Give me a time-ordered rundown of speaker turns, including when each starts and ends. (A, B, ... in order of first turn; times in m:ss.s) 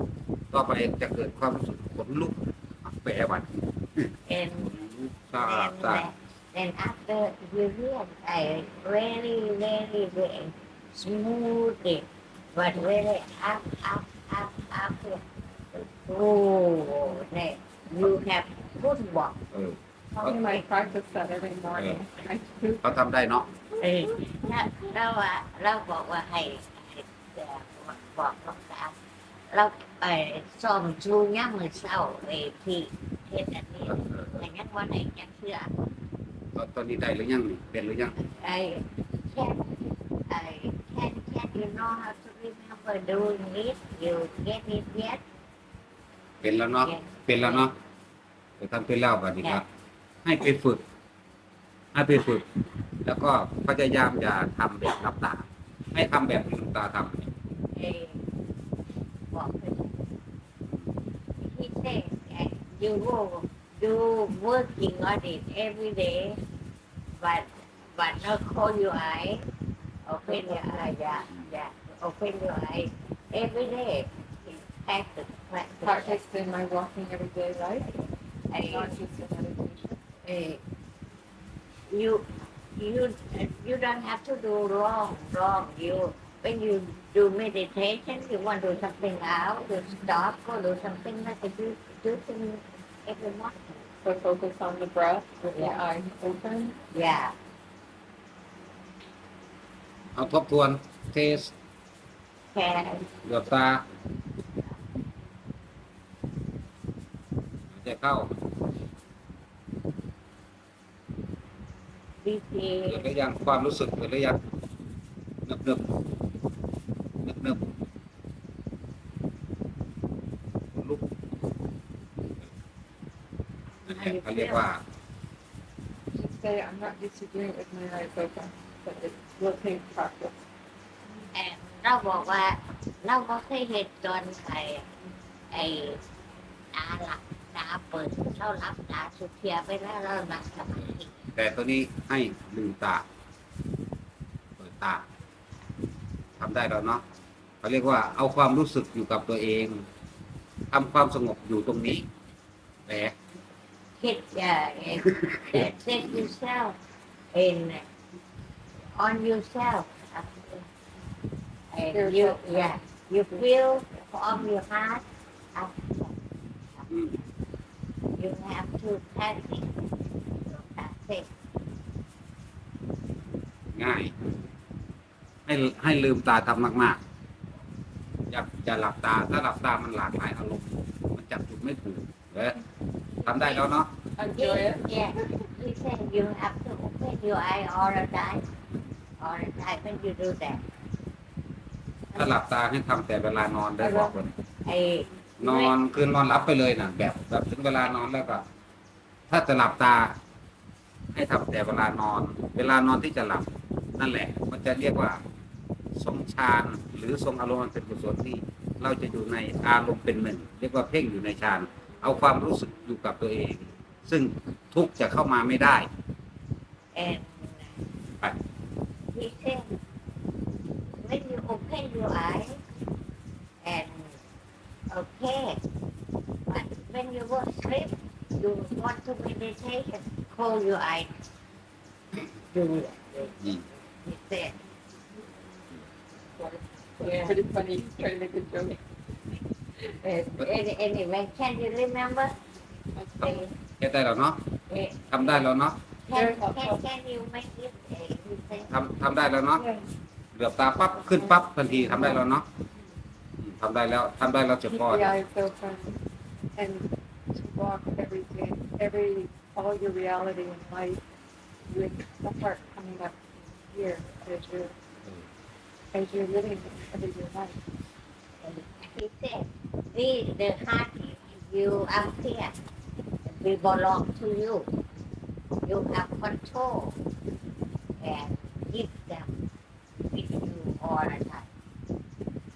0:00.5-0:04.0 A
0:04.2-0:04.7 B
0:04.6-0:06.1 A
0:05.3-0:15.2 B
0:16.0-0:19.4 B
0:19.5-0:19.8 A
0:20.2-0:22.9 C
0:20.2-0:20.6 B
0:22.8-0:23.5 A
0:23.8-0:28.9 B
0:29.5-0:35.7 B
0:33.9-0:34.4 A
0:36.5-0:38.1 A
0:38.2-0:45.2 B
0:46.4-0:47.7 A
0:46.8-0:47.7 B
0:48.6-0:49.6 A
0:50.2-0:50.8 A
0:51.9-0:52.4 A
0:53.0-0:57.3 A
0:57.7-0:58.2 B
0:59.3-1:00.0 B
1:01.4-1:06.4 B
1:07.2-1:09.4 B
1:10.0-1:16.2 B
1:15.8-1:18.0 C
1:18.5-1:18.9 B
1:18.6-1:20.0 C
1:20.2-1:20.6 B
1:21.9-1:33.8 B
1:34.0-1:36.8 C
1:36.9-1:37.4 B
1:40.2-1:41.5 A
1:42.5-1:43.1 B
1:43.2-1:43.8 A
1:47.7-1:48.3 A
1:52.2-1:53.1 B
1:52.9-1:54.4 A
1:55.4-1:55.9 A
1:57.2-1:57.6 A
2:00.7-2:01.0 A
2:02.2-2:02.5 A
2:03.9-2:04.7 B
2:03.9-2:04.8 A
2:06.1-2:10.3 C
2:11.3-2:14.8 B
2:15.5-2:16.0 B
2:16.7-2:21.3 B
2:21.4-2:23.0 A
2:24.6-2:25.0 A
2:26.4-2:27.0 A
2:27.6-2:29.8 A
2:30.7-2:32.0 A
2:32.9-2:33.1 A
2:34.0-2:36.8 B
2:35.5-2:36.3 A
2:37.3-2:37.8 B
2:38.9-2:40.7 B
2:41.7-2:46.1 B
2:41.9-2:42.5 C
2:46.9-2:47.1 A
2:48.2-2:49.8 B
2:50.4-2:51.3 B
2:53.7-2:54.1 A
2:55.4-2:57.0 A
2:58.3-3:02.6 A
3:03.2-3:03.9 A
3:03.3-3:03.6 B
3:04.2-3:04.8 C
3:04.2-3:08.4 B
3:09.2-3:10.6 B
3:12.1-3:14.3 A
3:13.8-3:14.1 C
3:14.6-3:15.7 B
3:15.4-3:18.4 A
3:19.3-3:20.2 A
3:21.1-3:25.2 A
3:25.9-3:35.9 A
3:36.9-3:37.7 B
3:39.1-3:39.7 B
3:41.0-3:42.6 B
3:43.6-3:44.2 B
3:44.9-3:45.6 B
3:46.5-3:51.1 B
3:52.4-3:54.6 B
3:56.4-3:58.8 C
3:57.0-3:57.4 B
3:59.7-4:02.3 B
4:03.0-4:03.5 C
4:03.2-4:04.4 A
4:03.2-4:03.5 B
4:04.7-4:05.4 B
4:05.1-4:05.8 A
4:06.1-4:08.8 B
4:06.1-4:06.8 C
4:08.7-4:09.6 A
4:09.6-4:09.8 C
4:10.3-4:12.4 A
4:11.8-4:12.2 C
4:13.4-4:15.1 A
4:14.7-4:16.0 C
4:16.6-4:21.0 C
4:21.7-4:24.7 C
4:25.9-4:27.6 C
4:28.4-4:32.5 B
4:33.2-4:34.7 B
4:35.6-4:37.0 B
4:38.0-4:39.3 B
4:40.1-4:41.5 B